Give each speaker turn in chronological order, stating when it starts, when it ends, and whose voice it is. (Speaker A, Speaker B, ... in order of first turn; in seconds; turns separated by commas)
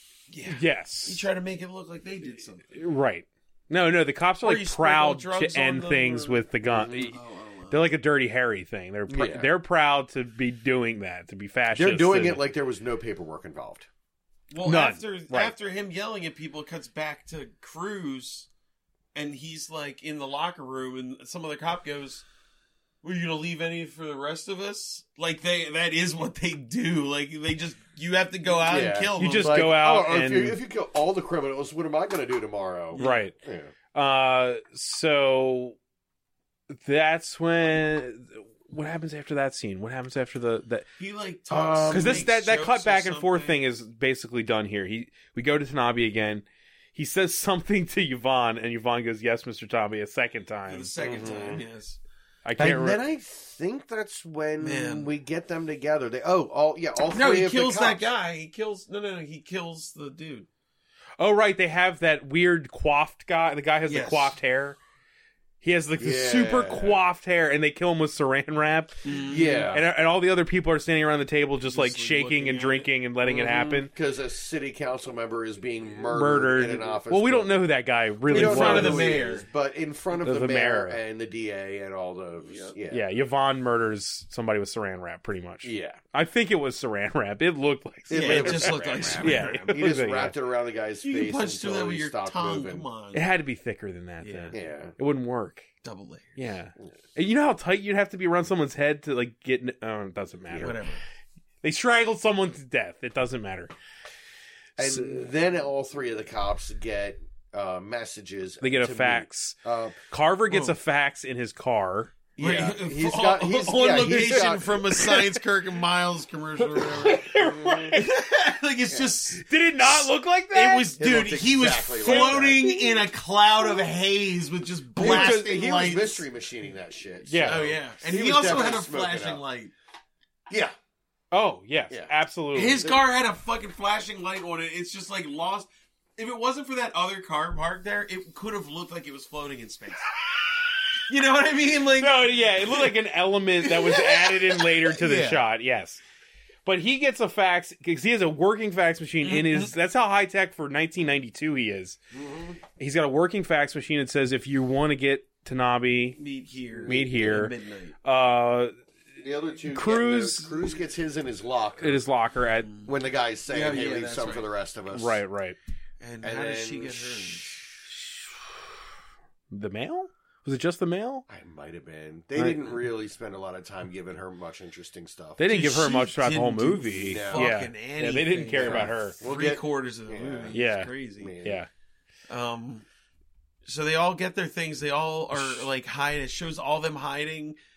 Speaker A: 0.3-2.8, Speaker B: 0.5-1.3, Speaker B: 2.7-7.2, Speaker A: 4.4-6.5, Speaker C: 6.7-7.1, Speaker A: 7.1-7.9, Speaker B: 7.7-12.4, Speaker C: 9.1-9.5, Speaker C: 11.7-13.9, Speaker A: 14.5-18.5, Speaker B: 14.6-15.5, Speaker A: 19.1-22.3, Speaker A: 23.0-29.6, Speaker C: 28.6-33.7, Speaker B: 29.2-30.6, Speaker A: 32.9-33.3, Speaker B: 33.0-33.3, Speaker B: 33.9-35.8, Speaker B: 36.7-40.9, Speaker A: 41.0-43.6, Speaker C: 41.5-42.3, Speaker B: 41.9-46.4, Speaker B: 47.0-51.3, Speaker A: 50.7-52.0, Speaker C: 51.0-51.6, Speaker B: 52.5-53.0, Speaker C: 52.6-58.0, Speaker A: 54.6-55.1, Speaker A: 57.1-60.5, Speaker B: 61.2-64.8, Speaker A: 63.9-64.4, Speaker B: 65.6-69.1, Speaker C: 66.0-67.0, Speaker A: 69.0-69.8, Speaker C: 69.3-69.9, Speaker B: 69.7-73.9, Speaker A: 71.6-73.9, Speaker C: 73.9-77.5, Speaker B: 76.1-79.2, Speaker A: 78.3-79.5, Speaker C: 78.3-83.1, Speaker B: 80.2-81.0, Speaker A: 82.5-82.7, Speaker B: 82.9-90.4, Speaker C: 85.6-86.0, Speaker C: 88.1-92.9, Speaker A: 88.1-89.8, Speaker A: 91.0-93.2, Speaker B: 93.1-95.7, Speaker A: 94.2-94.5, Speaker C: 94.5-94.9, Speaker A: 95.8-96.4, Speaker B: 96.4-100.8, Speaker A: 100.5-101.0, Speaker B: 101.6-103.7, Speaker C: 104.8-110.0, Speaker B: 104.8-105.3, Speaker B: 108.6-109.6, Speaker B: 110.1-112.1, Speaker A: 110.5-110.8, Speaker A: 112.4-117.3, Speaker C: 112.4-114.9, Speaker B: 116.6-118.1, Speaker C: 117.3-117.9, Speaker A: 117.9-126.2, Speaker B: 119.4-120.9, Speaker C: 121.0-122.7, Speaker B: 122.0-123.0, Speaker C: 125.0-129.4, Speaker B: 125.0-125.4, Speaker B: 127.3-127.7, Speaker A: 127.4-129.7, Speaker C: 130.5-130.8, Speaker B: 131.3-132.8, Speaker A: 132.5-135.7, Speaker A: 136.2-140.1, Speaker A: 141.1-143.0, Speaker B: 142.0-146.0, Speaker A: 143.6-145.4, Speaker B: 146.7-152.0, Speaker A: 149.3-149.7, Speaker C: 152.1-152.6, Speaker B: 152.8-156.2, Speaker A: 156.2-158.0, Speaker C: 156.8-157.1, Speaker B: 156.8-157.5, Speaker B: 158.0-158.7, Speaker C: 159.2-162.0, Speaker B: 159.7-160.6, Speaker B: 161.8-162.7, Speaker A: 162.7-162.9, Speaker C: 162.8-165.2, Speaker A: 163.5-164.5, Speaker B: 164.9-165.6, Speaker A: 166.0-167.6, Speaker C: 166.2-167.6, Speaker B: 169.5-171.2, Speaker C: 171.3-175.4, Speaker B: 172.4-172.7, Speaker B: 175.4-179.2, Speaker A: 175.5-181.3, Speaker C: 177.0-177.5, Speaker C: 178.5-180.6, Speaker B: 180.5-180.9, Speaker C: 181.2-181.6, Speaker B: 181.4-181.7, Speaker A: 182.3-182.8, Speaker A: 183.7-187.6